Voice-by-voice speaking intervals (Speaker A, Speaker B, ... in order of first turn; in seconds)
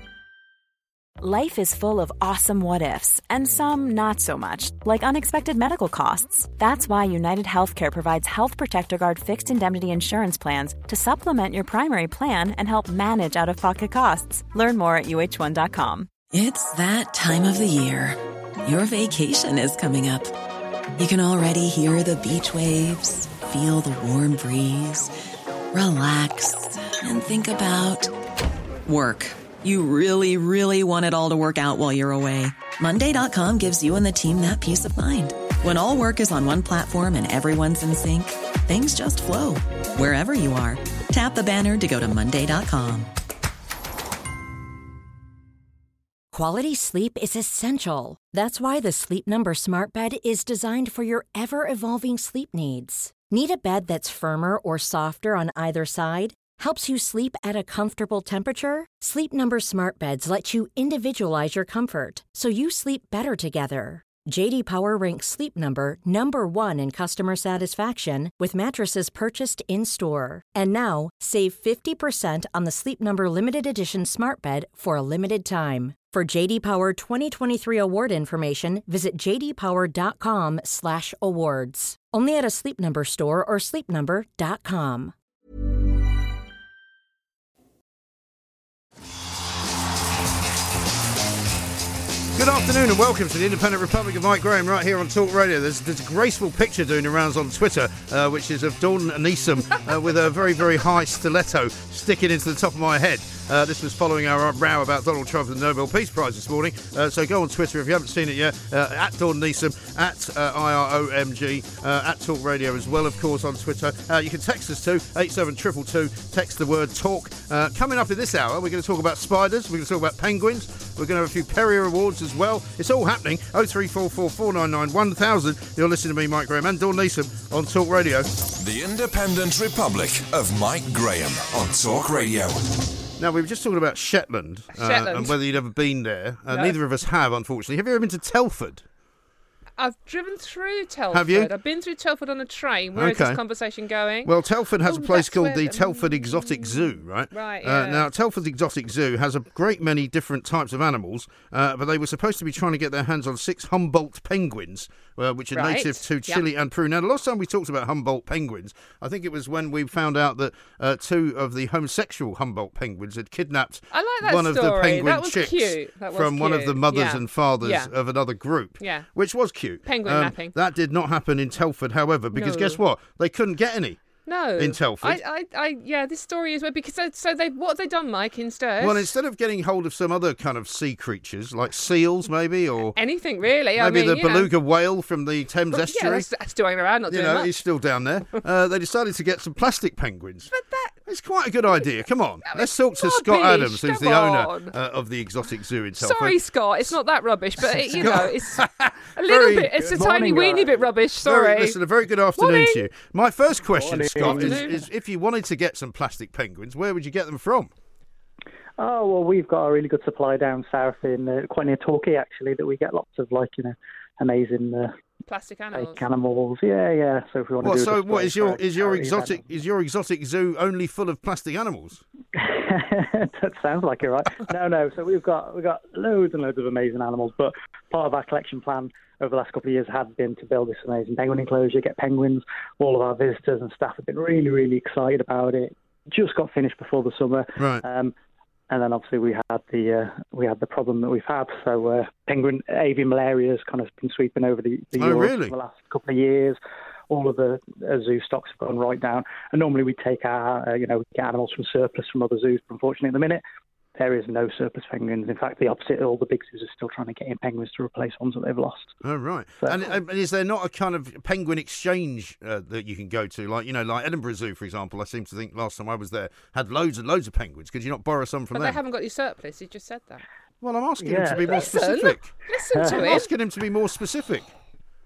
Speaker A: 1.2-16.1
Speaker B: 16.3-20.3, 21.0-25.1, 25.7-28.1, 28.9-43.1
Speaker C: 46.3-85.1
Speaker D: 92.3-128.3, 133.2-138.8, 141.1-141.5, 142.9-143.4, 144.2-174.0, 174.6-175.2, 178.8-183.0, 183.8-186.3, 187.1-190.5, 191.1-196.9, 197.6-200.2, 201.2-207.7, 217.6-222.0, 237.6-237.8, 245.0-245.5, 259.0-268.8, 270.6-272.3, 272.9-274.5
Speaker E: 128.6-132.6
Speaker F: 134.7-135.3, 136.5-136.8, 139.8-148.1, 155.5-156.4, 163.9-167.9, 168.8-169.1, 169.8-170.5, 172.3-172.8, 174.2-179.1, 182.9-184.5, 185.7-187.5, 190.5-190.9, 192.4-194.7, 196.0-198.6, 199.2-201.8, 202.4-202.9, 204.2-204.8, 215.3-216.0, 268.5-270.2, 271.4-273.3
Speaker G: 199.9-200.9, 203.7-204.8, 208.8-214.9, 215.7-219.4, 222.3-238.1, 238.7-246.6, 247.1-253.4, 253.9-258.9, 259.6-259.9, 271.0-271.8, 272.7-273.2